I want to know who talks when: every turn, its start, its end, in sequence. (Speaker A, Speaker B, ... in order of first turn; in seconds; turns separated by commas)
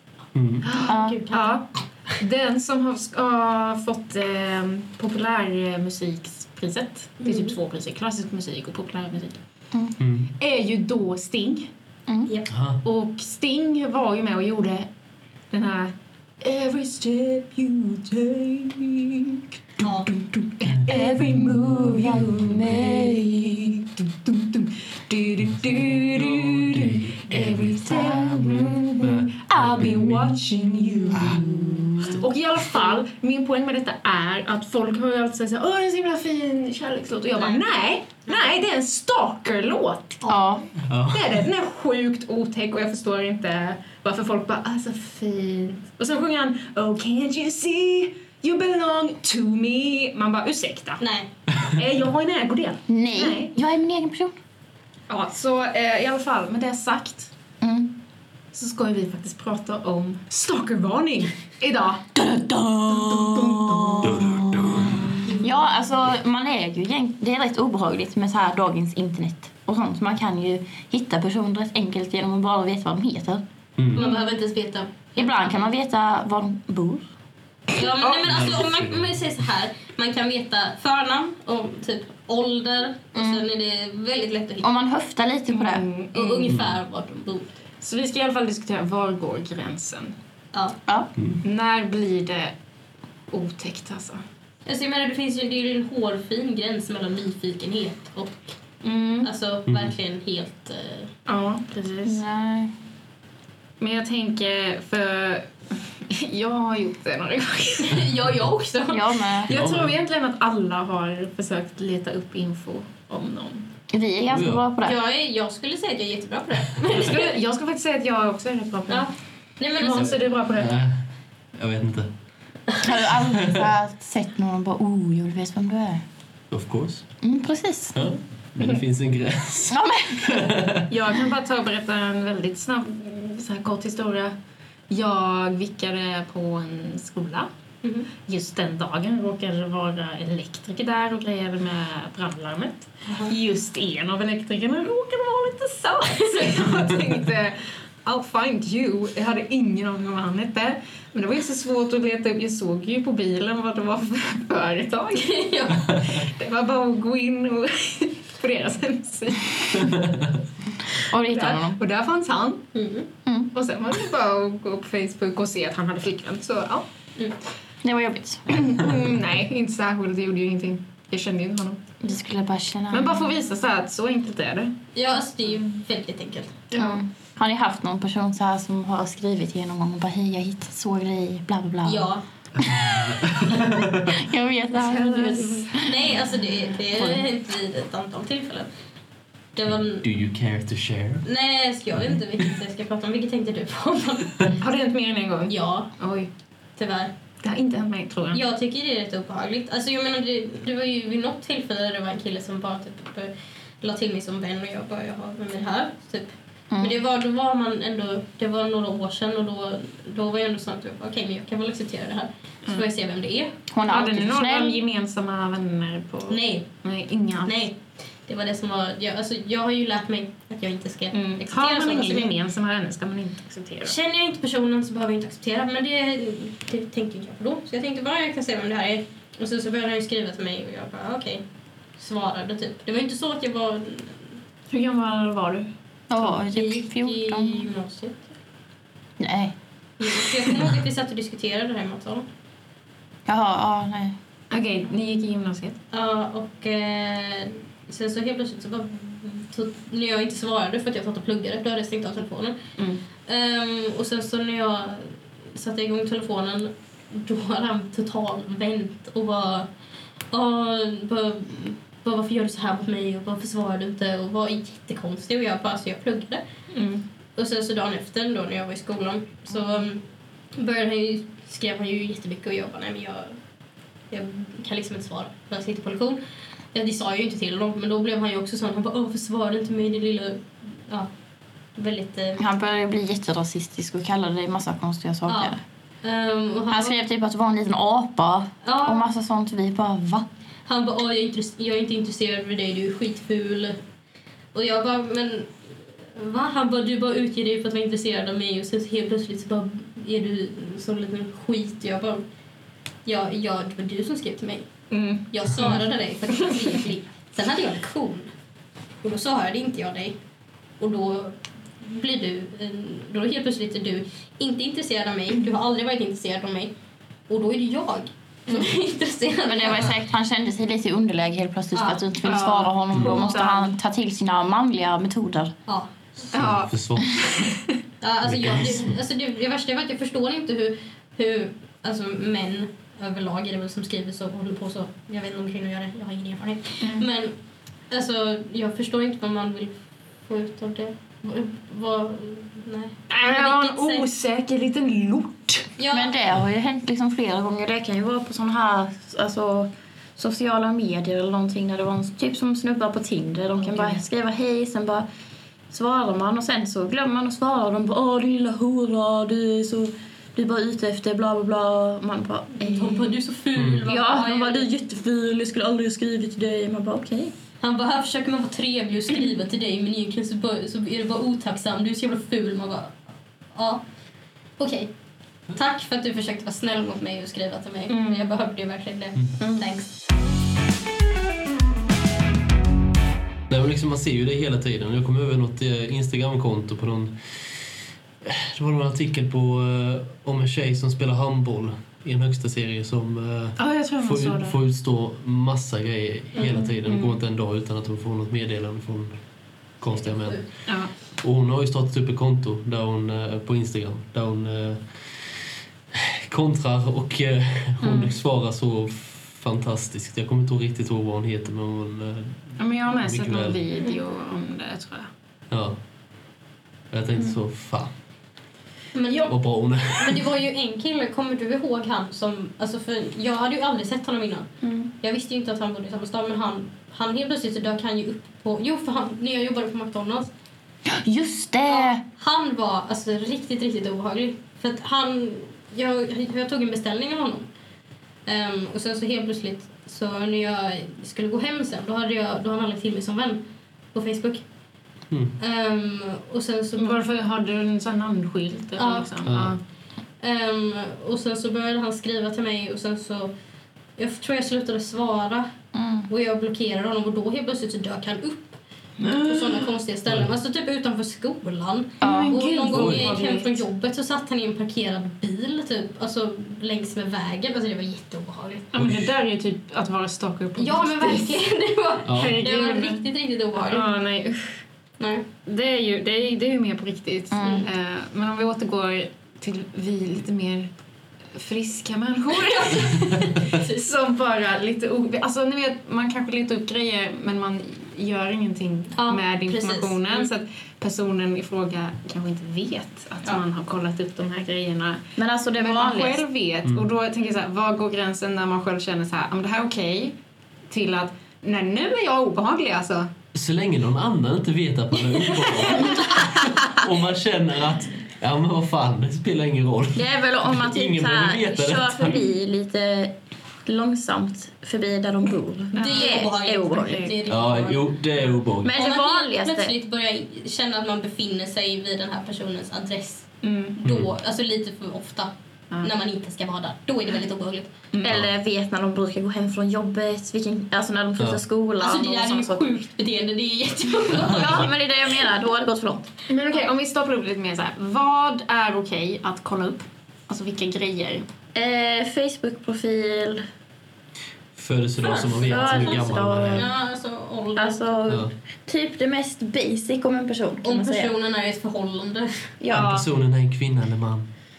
Speaker A: 0.3-0.7, Speaker B: 0.6-9.4, Speaker C: 0.8-1.6, Speaker D: 0.9-1.2, Speaker C: 7.2-7.5, Speaker A: 10.0-10.3, Speaker B: 10.4-11.7, Speaker A: 12.5-12.8, Speaker B: 12.8-14.9, Speaker B: 15.5-40.2, Speaker C: 19.8-20.1, Speaker D: 20.9-23.6, Speaker A: 22.1-22.6, Speaker A: 25.6-30.4, Speaker A: 31.1-32.2, Speaker D: 31.4-32.1, Speaker C: 40.2-40.6, Speaker D: 40.3-40.6, Speaker A: 40.9-41.4, Speaker B: 41.1-51.0, Speaker C: 51.0-51.3, Speaker B: 51.6-53.5, Speaker D: 52.9-54.4, Speaker B: 55.1-57.3, Speaker D: 57.6-57.9, Speaker B: 58.5-62.2, Speaker D: 62.1-73.4, Speaker B: 62.9-64.5, Speaker A: 64.1-65.1, Speaker A: 73.8-74.0, Speaker C: 73.9-75.7, Speaker D: 75.2-77.1, Speaker C: 77.7-84.7, Speaker A: 78.2-79.2, Speaker D: 83.2-83.4, Speaker D: 84.6-85.9, Speaker B: 85.5-86.5, Speaker C: 86.1-87.5, Speaker A: 86.5-86.8, Speaker B: 87.8-90.1, Speaker B: 91.4-92.5, Speaker B: 93.3-94.2, Speaker C: 94.7-98.5, Speaker B: 98.8-99.3, Speaker C: 99.2-101.1, Speaker A: 99.7-99.9, Speaker B: 101.3-102.2, Speaker D: 102.0-102.7, Speaker B: 103.8-108.0, Speaker C: 107.8-109.3, Speaker D: 108.9-109.5, Speaker B: 109.5-113.7, Speaker A: 109.5-109.9, Speaker D: 113.9-115.0, Speaker A: 114.3-114.6, Speaker C: 114.8-117.3, Speaker B: 116.9-119.1, Speaker C: 118.9-120.2, Speaker B: 119.8-120.8, Speaker A: 120.0-121.0, Speaker A: 121.5-122.1, Speaker D: 122.8-126.0, Speaker A: 123.2-123.7, Speaker A: 126.5-127.1, Speaker D: 127.2-128.1, Speaker A: 128.0-130.8, Speaker D: 129.7-130.6, Speaker B: 130.9-134.3, Speaker B: 134.9-137.5, Speaker C: 137.8-138.1, Speaker B: 138.2-160.0, Speaker C: 143.1-143.3, Speaker C: 146.1-146.6, Speaker C: 155.2-155.9, Speaker A: 159.8-160.3, Speaker D: 161.0-161.8, Speaker B: 161.2-162.7, Speaker C: 162.7-163.1, Speaker D: 163.3-163.5, Speaker B: 163.5-166.9, Speaker D: 167.8-168.6, Speaker B: 168.5-172.0, Speaker D: 172.0-173.3, Speaker B: 172.9-174.8, Speaker C: 174.9-176.6, Speaker B: 176.7-177.0, Speaker D: 176.8-186.0, Speaker C: 181.8-182.2, Speaker A: 182.6-184.2, Speaker B: 184.8-185.9, Speaker C: 185.8-188.7, Speaker D: 186.9-187.3, Speaker C: 189.6-190.1, Speaker A: 189.7-191.2, Speaker C: 191.2-194.6, Speaker B: 194.6-196.3, Speaker C: 195.5-195.9, Speaker C: 196.8-197.1, Speaker B: 197.4-198.4, Speaker C: 198.3-213.5, Speaker D: 206.7-207.0, Speaker D: 213.7-214.8, Speaker B: 213.9-217.7, Speaker C: 216.3-216.7, Speaker C: 217.5-222.3, Speaker B: 221.1-223.9, Speaker C: 223.8-231.4, Speaker C: 232.0-234.4, Speaker D: 234.7-237.7, Speaker C: 236.2-238.3, Speaker D: 239.2-239.6, Speaker C: 240.0-242.3, Speaker D: 243.3-244.2, Speaker B: 244.5-245.8, Speaker C: 245.9-252.6, Speaker B: 252.8-253.0, Speaker C: 253.3-259.7, Speaker C: 260.3-266.4, Speaker B: 266.7-267.0, Speaker C: 267.4-270.0, Speaker C: 270.6-273.4, Speaker C: 274.1-276.2, Speaker C: 276.7-281.1, Speaker C: 281.8-282.4, Speaker D: 282.4-285.6, Speaker C: 285.3-287.0, Speaker D: 286.7-290.3, Speaker C: 288.6-289.1, Speaker C: 290.7-293.8, Speaker C: 294.5-302.2, Speaker C: 303.1-304.7, Speaker B: 304.9-305.8, Speaker C: 305.3-308.3, Speaker B: 306.4-306.7, Speaker C: 309.0-310.2, Speaker C: 310.8-316.7, Speaker C: 317.3-320.0, Speaker D: 319.4-325.6, Speaker C: 321.7-322.0, Speaker B: 322.2-323.8, Speaker A: 326.3-327.5, Speaker B: 326.3-327.8, Speaker C: 328.0-337.4, Speaker A: 328.2-328.9, Speaker B: 336.8-337.1, Speaker C: 337.9-344.1, Speaker B: 343.1-345.7, Speaker C: 345.8-346.1, Speaker D: 345.9-355.1, Speaker B: 353.6-354.0, Speaker D: 355.7-363.2, Speaker C: 362.6-364.7, Speaker A: 363.6-363.9, Speaker D: 363.9-367.3, Speaker C: 367.6-373.0, Speaker C: 373.5-373.9, Speaker C: 374.6-374.9, Speaker C: 375.5-379.9, Speaker B: 377.9-378.4, Speaker D: 379.4-379.7, Speaker A: 383.5-399.2, Speaker B: 393.6-394.6, Speaker B: 396.4-397.2, Speaker A: 399.8-405.4, Speaker C: 399.9-400.5, Speaker A: 405.9-413.6, Speaker B: 407.8-408.2, Speaker B: 412.6-415.1, Speaker A: 415.5-415.8, Speaker A: 416.9-417.9, Speaker C: 418.9-424.5, Speaker A: 419.3-420.3, Speaker B: 424.6-424.9, Speaker C: 425.0-430.3, Speaker D: 430.9-432.0, Speaker C: 431.7-437.5, Speaker C: 438.3-444.4, Speaker A: 445.1-445.4, Speaker C: 445.4-447.0, Speaker B: 446.8-449.6, Speaker C: 448.8-449.1, Speaker A: 449.2-449.6, Speaker C: 450.2-453.3, Speaker C: 454.0-455.5, Speaker D: 455.7-456.1, Speaker C: 456.1-468.7, Speaker B: 459.0-459.7, Speaker D: 462.0-462.4, Speaker B: 462.0-463.6, Speaker A: 462.7-463.1, Speaker B: 468.7-471.4, Speaker A: 468.8-469.1, Speaker C: 470.6-473.9, Speaker A: 472.1-472.4, Speaker B: 472.1-473.0, Speaker B: 473.7-474.6, Speaker C: 475.0-475.3, Speaker B: 475.5-480.7, Speaker D: 477.3-477.7, Speaker B: 481.3-500.2, Speaker C: 482.4-483.9, Speaker C: 488.9-490.3, Speaker D: 495.2-496.2, Speaker B: 500.7-503.1, Speaker A: 503.3-512.2, Speaker B: 505.7-506.2, Speaker D: 509.9-517.1, Speaker B: 515.8-517.1, Speaker C: 515.8-517.9, Speaker A: 517.3-518.8, Speaker D: 518.6-519.7, Speaker C: 518.7-527.7, Speaker B: 523.4-523.8, Speaker A: 523.8-524.1, Speaker B: 527.9-528.2, Speaker D: 528.0-532.7, Speaker C: 531.8-534.7, Speaker A: 534.1-534.5, Speaker D: 534.2-536.1, Speaker B: 536.3-541.3, Speaker D: 541.5-543.5, Speaker A: 544.5-546.7, Speaker C: 545.0-548.1, Speaker D: 545.3-546.7, Speaker D: 547.6-551.1, Speaker C: 550.6-552.5, Speaker D: 552.6-553.0, Speaker B: 552.7-553.1, Speaker A: 552.7-554.3